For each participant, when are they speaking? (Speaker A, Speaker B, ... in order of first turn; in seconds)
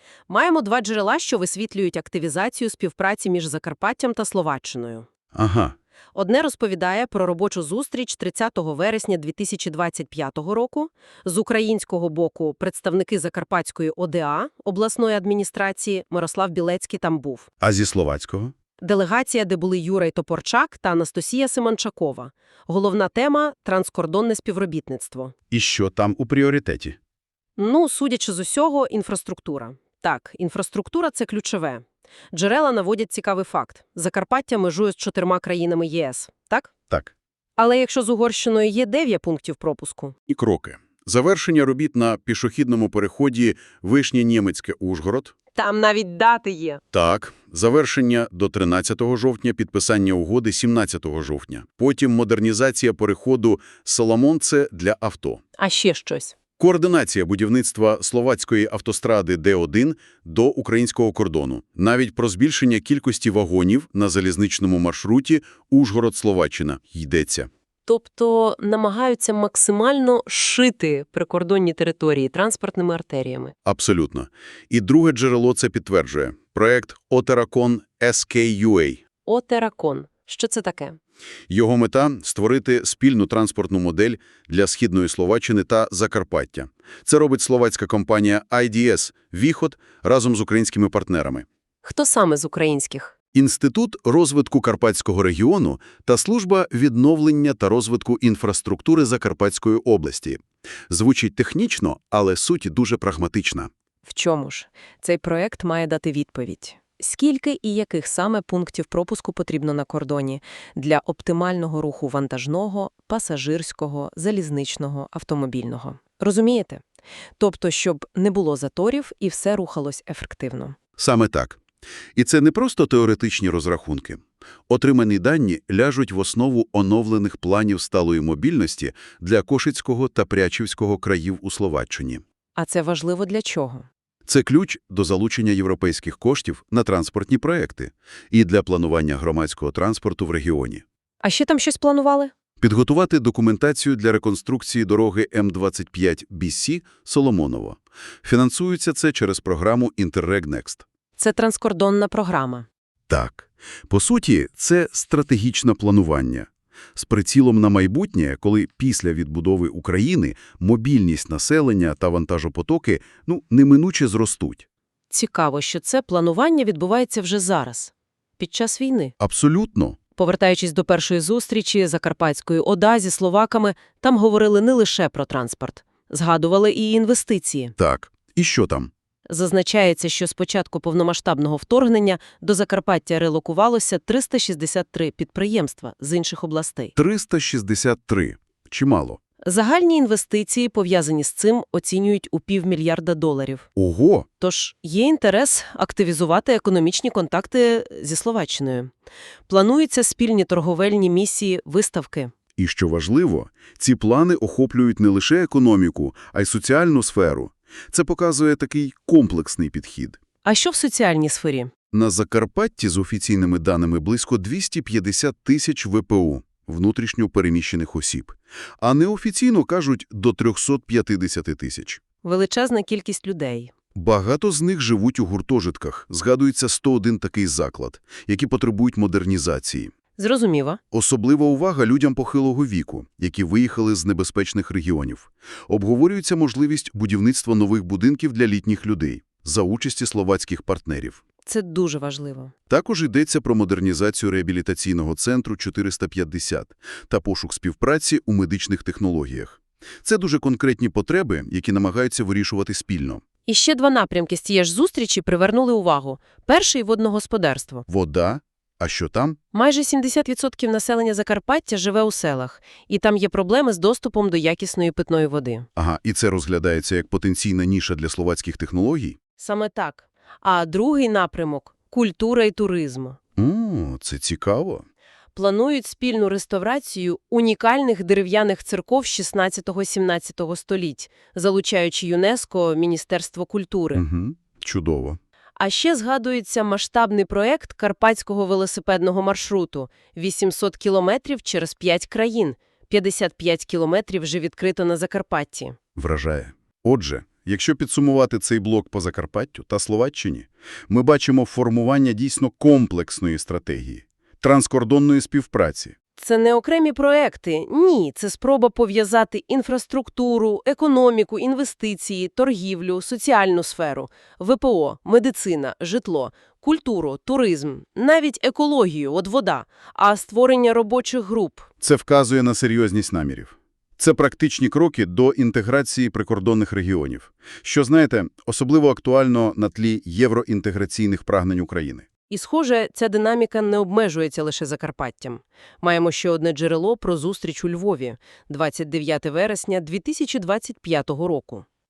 Speaker A: 0.3-5.0, 6.1-17.5, 18.8-25.3, 27.6-36.7, 37.6-40.1, 45.5-46.8, 55.6-56.3, 67.8-73.5, 79.2-81.0, 91.8-93.1, 104.0-116.8, 117.4-120.8, 132.5-133.8, 141.2-142.3, 151.2-152.7, 165.1-169.1, 170.2-177.7, 179.3-186.9, 189.4-193.7, 194.4-198.9, 199.5-202.3, 210.4-211.7, 222.2-223.7, 230.2-230.8, 241.4-242.5, 253.4-257.8, 259.5-265.7, 269.4-273.2, 275.3-284.0, 285.6-295.8, 306.2-321.7, 332.3-341.6
Speaker B: 5.3-5.7, 17.6-18.5, 25.5-27.0, 40.3-45.3, 46.9-55.4, 56.6-67.5, 73.6-79.0, 81.5-91.5, 93.3-103.7, 121.0-121.6, 122.2-132.2, 134.3-140.8, 142.6-150.8, 153.1-164.7, 169.2-170.0, 177.8-178.9, 186.9-189.2, 193.8-194.2, 202.6-210.2, 211.9-222.0, 223.9-229.9, 230.9-241.2, 242.7-253.2, 257.9-259.4, 265.8-269.2, 273.4-274.8, 283.9-285.2, 295.9-305.9, 321.8-332.1